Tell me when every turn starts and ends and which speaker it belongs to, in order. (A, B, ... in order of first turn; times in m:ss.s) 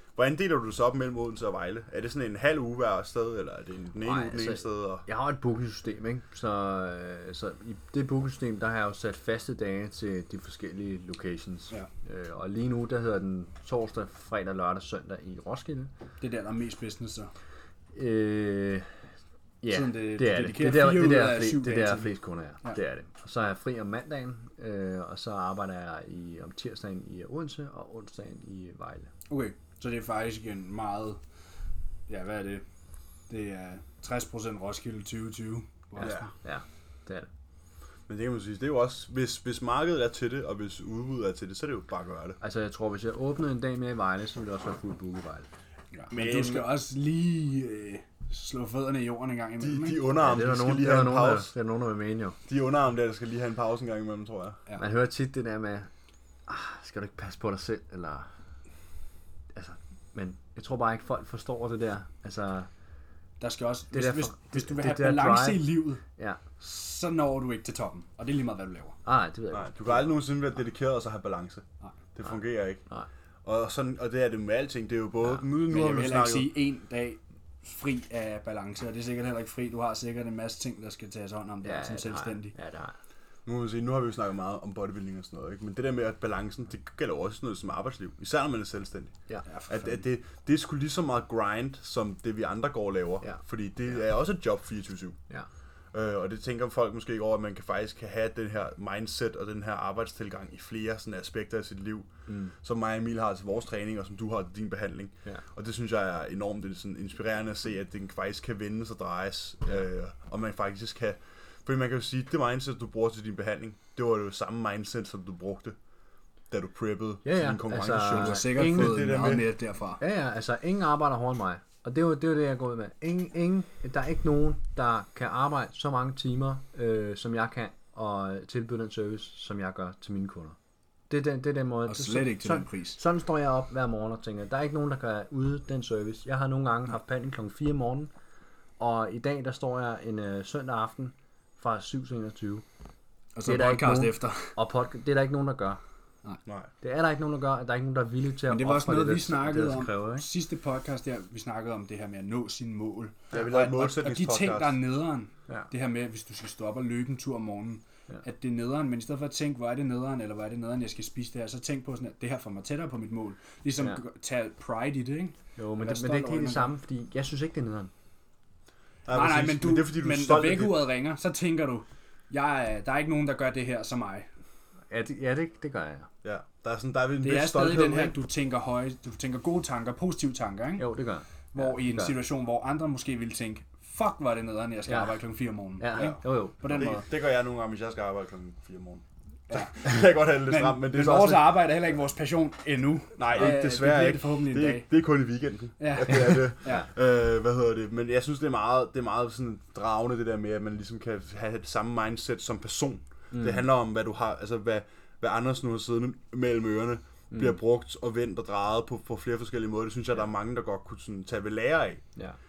0:00.2-0:05.0 A
0:04.0-0:15.9 B
0:16.2-0:17.3 C
0:17.9-0:19.0 B
0:19.6-0:29.1 B
0:19.7-0:22.1 C
0:29.3-0:31.2 C
0:32.1-0:32.6 C
0:33.3-0:36.3 C
0:36.0-0:37.3 B
0:36.0-0:36.3 A
0:38.1-0:42.4 A
0:42.4-0:45.5 B
0:45.9-0:50.0 C
0:46.1-0:46.7 A
0:49.6-0:51.5 A
0:50.2-0:52.4 B
0:52.5-0:54.6 A
0:54.8-0:55.9 B
0:56.5-0:58.3 B
0:59.5-1:02.7 B
1:03.4-1:06.0 C
1:03.9-1:06.4 B
1:06.6-1:09.0 C
1:09.0-1:10.1 B
1:09.5-1:12.8 A
1:13.4-1:16.5 A
1:15.7-1:22.5 C
1:21.6-1:23.0 B
1:23.4-1:29.1 A
1:29.4-1:30.0 C
1:29.7-1:35.2 A
1:35.9-1:42.1 A
1:42.3-1:42.5 B
1:42.6-1:55.8 A
1:56.5-1:59.5 A
1:57.2-1:59.1 B
1:58.0-2:00.0 C
2:00.0-2:10.6 B
2:11.1-2:18.1 B
2:11.9-2:13.0 C
2:18.8-2:22.6 B
2:23.3-2:24.5 C
2:23.4-2:25.8 B
2:26.4-2:26.7 A
2:26.8-2:30.2 B
2:28.5-2:46.7 C
2:33.3-2:34.8 A
2:45.6-2:47.9 B
2:49.0-2:50.8 A
2:49.1-2:54.3 C
2:54.9-2:56.1 B
2:56.2-2:58.1 A
2:57.2-3:00.9 C
3:00.8-3:02.2 B
3:01.5-3:07.0 C
3:04.9-3:05.1 B
3:05.8-3:06.9 B
3:06.0-3:11.6 A
3:09.5-3:14.9 C
3:13.2-3:32.0 A
3:15.8-3:16.9 C
3:23.3-3:23.6 B
3:27.3-3:27.6 B